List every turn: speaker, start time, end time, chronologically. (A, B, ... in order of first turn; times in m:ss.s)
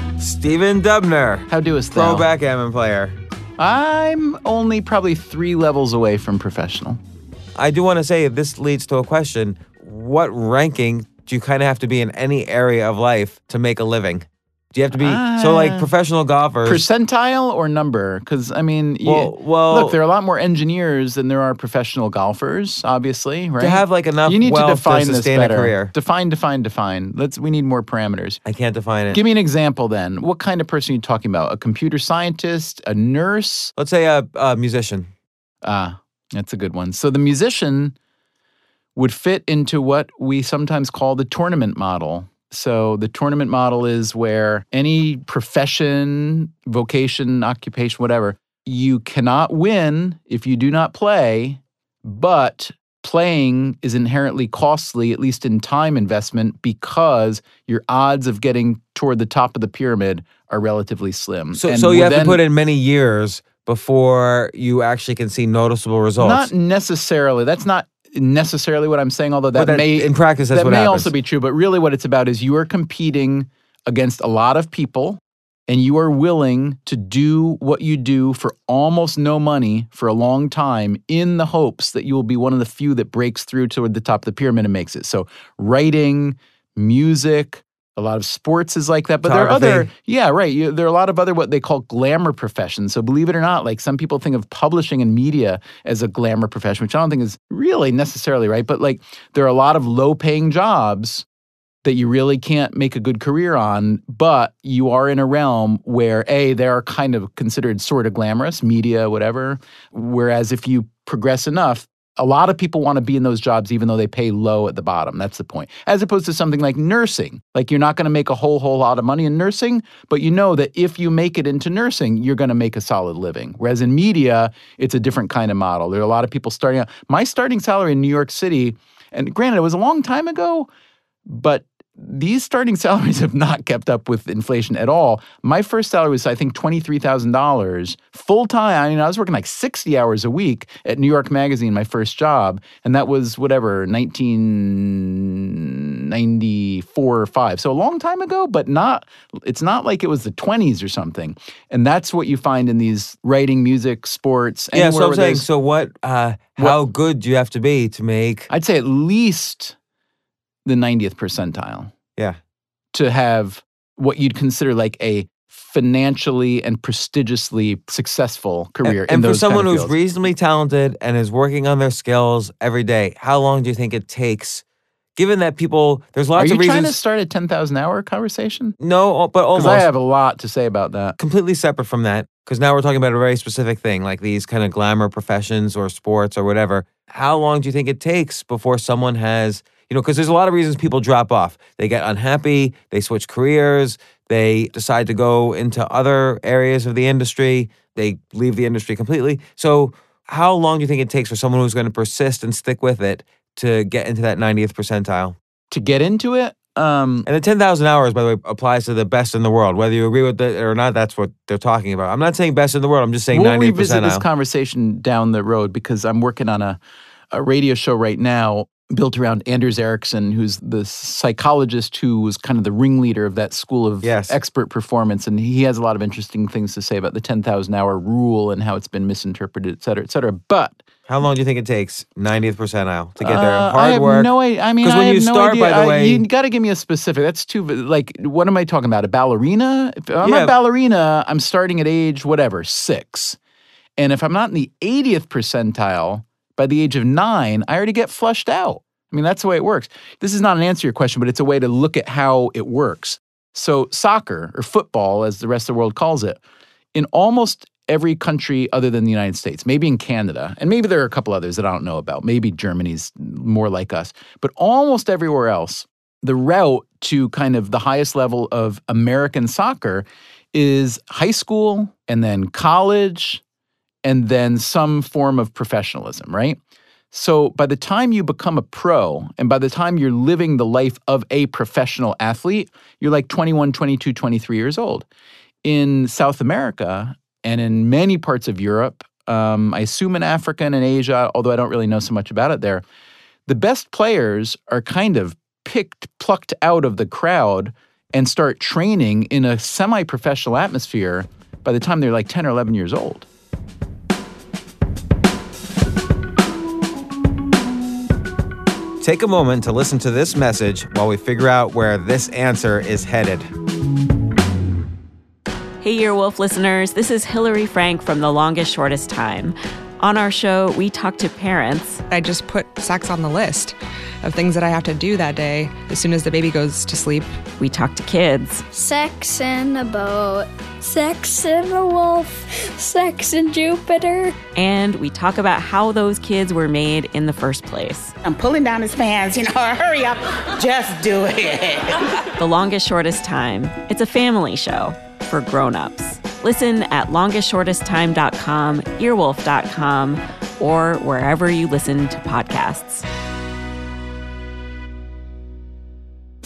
0:00.2-0:03.2 A
0:01.5-0:02.3 B
0:03.6-0:07.0 B
0:07.6-0:16.8 A
0:14.9-0:15.9 B
0:16.6-0:28.4 B
0:19.0-0:20.0 A
0:23.6-0:25.9 A
0:28.4-0:29.2 A
0:29.1-0:33.7 B
0:33.8-0:35.1 A
0:35.6-0:37.9 B
0:39.0-1:02.4 B
1:01.6-1:06.5 A
1:06.2-1:41.2 B
1:09.5-1:11.1 A
1:29.2-1:29.9 A
1:41.8-2:10.7 B
2:11.3-2:35.5 B
2:34.7-2:38.5 A
2:38.5-2:39.8 B
2:40.7-2:41.9 B
2:42.9-2:50.0 B
2:48.8-2:54.6 A
2:55.2-2:57.0 A
2:56.4-2:58.8 B
2:58.8-2:59.9 A
2:59.6-3:01.2 B
3:01.2-3:25.4 A
3:25.7-3:27.3 B
3:27.2-3:34.2 A
3:33.3-3:36.8 B
3:37.3-3:50.8 B
3:44.0-3:44.4 A
3:51.1-3:56.2 A
3:53.2-4:03.4 B
4:00.2-4:00.5 A
4:04.0-4:16.4 B
4:16.9-4:33.4 B
4:34.0-4:36.6 B
4:37.1-4:45.1 B
4:45.6-4:52.8 B
4:53.5-5:03.3 B
5:09.0-5:13.5 A
5:15.8-5:22.0 C
5:22.1-5:27.3 D
5:27.6-5:28.6 C
5:28.7-5:34.3 E
5:34.6-5:38.1 C
5:38.3-5:41.8 F
5:42.4-5:53.0 C